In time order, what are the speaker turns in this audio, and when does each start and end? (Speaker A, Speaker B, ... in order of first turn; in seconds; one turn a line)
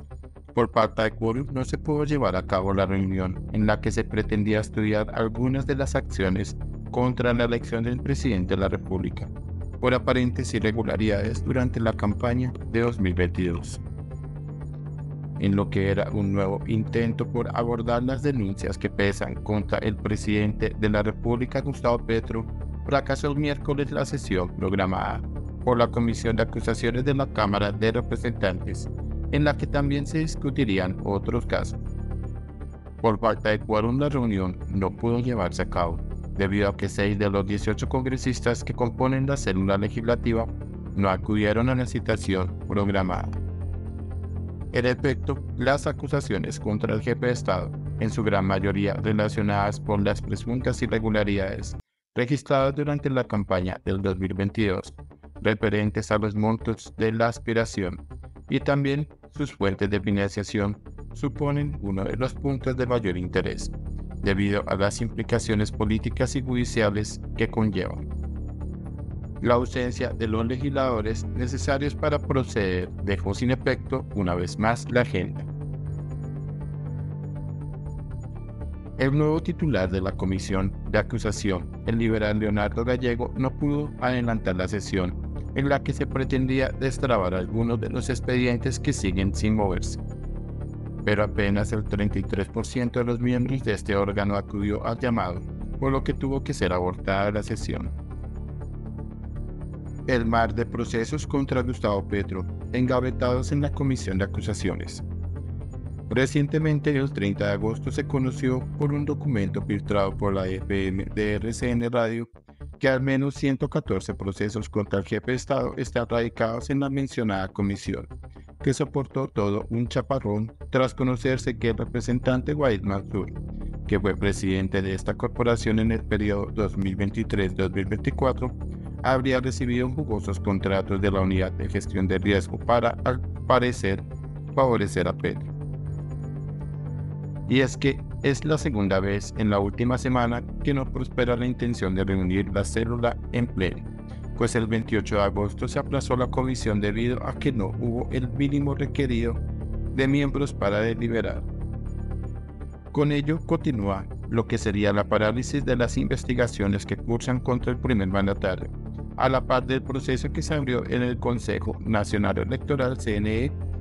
Speaker A: 0.5-13.8
Speaker A: 15.4-31.8
Speaker A: 33.0-43.4
Speaker A: 44.7-68.1
Speaker A: 69.4-75.5
Speaker A: 79.0-90.0
Speaker A: 91.0-97.9
Speaker A: 100.1-105.0
Speaker A: 106.1-118.1
Speaker A: 118.6-123.3
Speaker A: 123.9-135.5
Speaker A: 137.5-149.4
Speaker A: 149.9-151.5
Speaker A: 152.9-163.6